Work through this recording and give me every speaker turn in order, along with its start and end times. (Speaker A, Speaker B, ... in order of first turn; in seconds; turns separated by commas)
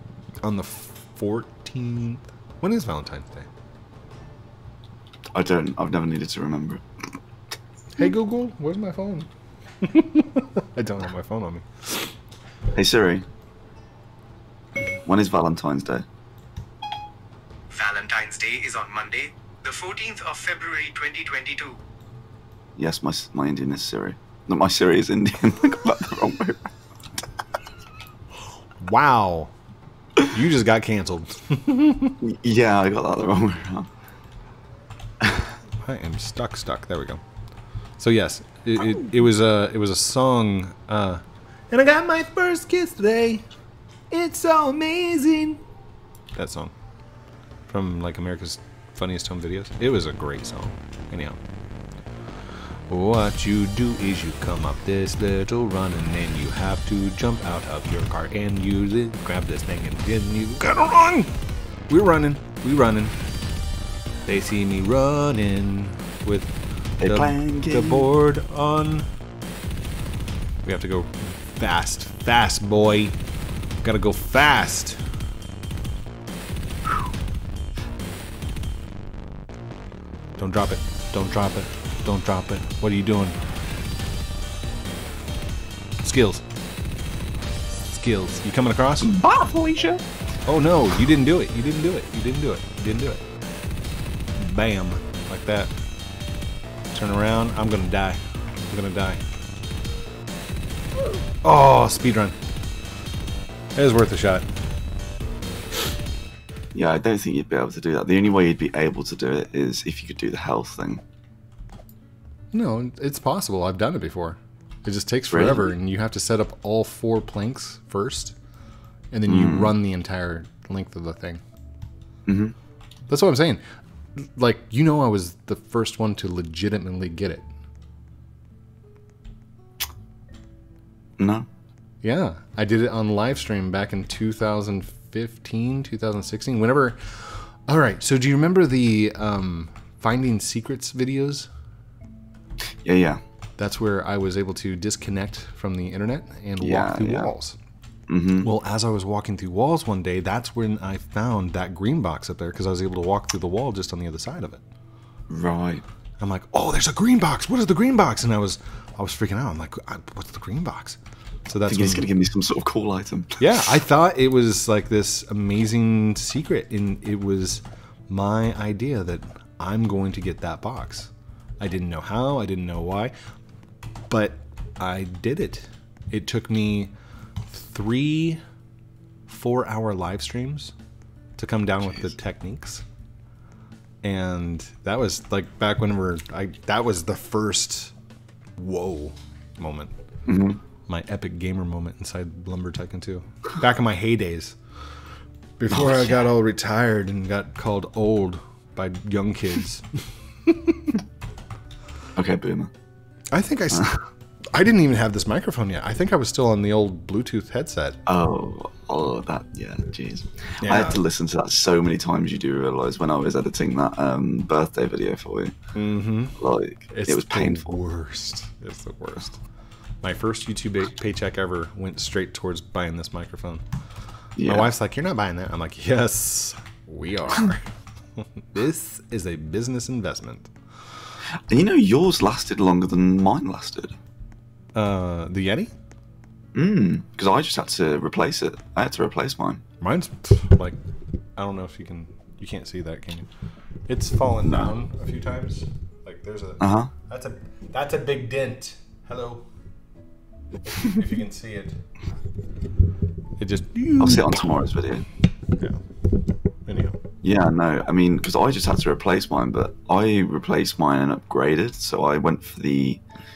Speaker A: 0.4-3.5, Speaker B: 5.3-6.8, Speaker A: 8.0-9.3, Speaker A: 9.8-12.0, Speaker B: 12.7-13.2, Speaker B: 15.0-16.0, Speaker C: 17.7-21.8, Speaker B: 22.8-26.7, Speaker A: 28.8-29.5, Speaker A: 30.2-32.2, Speaker B: 32.2-33.9, Speaker B: 35.2-35.5, Speaker A: 35.8-37.2, Speaker A: 38.0-43.4, Speaker A: 44.1-45.6, Speaker A: 46.4-46.7, Speaker A: 47.7-51.4, Speaker A: 52.9-61.3, Speaker A: 61.9-63.2, Speaker A: 64.2-69.1, Speaker B: 67.0-68.1, Speaker A: 70.6-73.2, Speaker A: 73.8-75.0, Speaker A: 80.4-83.4, Speaker A: 86.0-86.4, Speaker A: 87.8-89.2, Speaker B: 89.0-90.0, Speaker A: 90.5-93.2, Speaker A: 94.3-95.7, Speaker A: 96.9-99.2, Speaker A: 101.4-102.4, Speaker A: 103.8-104.5, Speaker B: 106.7-111.0, Speaker A: 112.5-118.3, Speaker B: 115.3-115.7, Speaker A: 119.1-121.4, Speaker B: 119.3-119.7, Speaker B: 122.2-122.5, Speaker A: 123.1-123.6, Speaker A: 124.2-127.5, Speaker B: 131.2-131.5, Speaker A: 132.0-141.5, Speaker B: 142.8-143.2, Speaker A: 143.6-147.6, Speaker B: 146.6-147.3, Speaker B: 148.1-148.5, Speaker A: 148.4-154.6, Speaker B: 155.3-155.8, Speaker A: 156.2-162.1, Speaker B: 161.7-163.5, Speaker A: 163.4-173.1, Speaker A: 174.1-176.9, Speaker A: 177.5-178.4, Speaker A: 179.3-180.7, Speaker A: 181.4-182.8, Speaker A: 184.0-187.9, Speaker A: 188.6-189.9, Speaker B: 190.3-190.6, Speaker A: 190.9-194.6, Speaker A: 195.6-201.0, Speaker B: 195.7-196.2, Speaker B: 202.2-202.7, Speaker A: 203.3-204.0, Speaker A: 204.5-208.0, Speaker B: 208.1-215.5, Speaker A: 210.6-211.0, Speaker A: 215.7-216.4, Speaker B: 216.4-217.7, Speaker A: 216.9-219.4, Speaker A: 220.0-223.6, Speaker B: 224.4-224.7, Speaker A: 224.4-230.5, Speaker B: 231.5-233.9, Speaker A: 234.7-235.7, Speaker B: 236.5-239.6, Speaker A: 239.8-240.8, Speaker A: 241.3-243.3, Speaker A: 243.9-249.5, Speaker B: 246.6-246.9, Speaker A: 250.6-251.8, Speaker A: 253.4-254.5, Speaker B: 254.0-255.1, Speaker A: 256.6-257.0, Speaker B: 257.2-263.0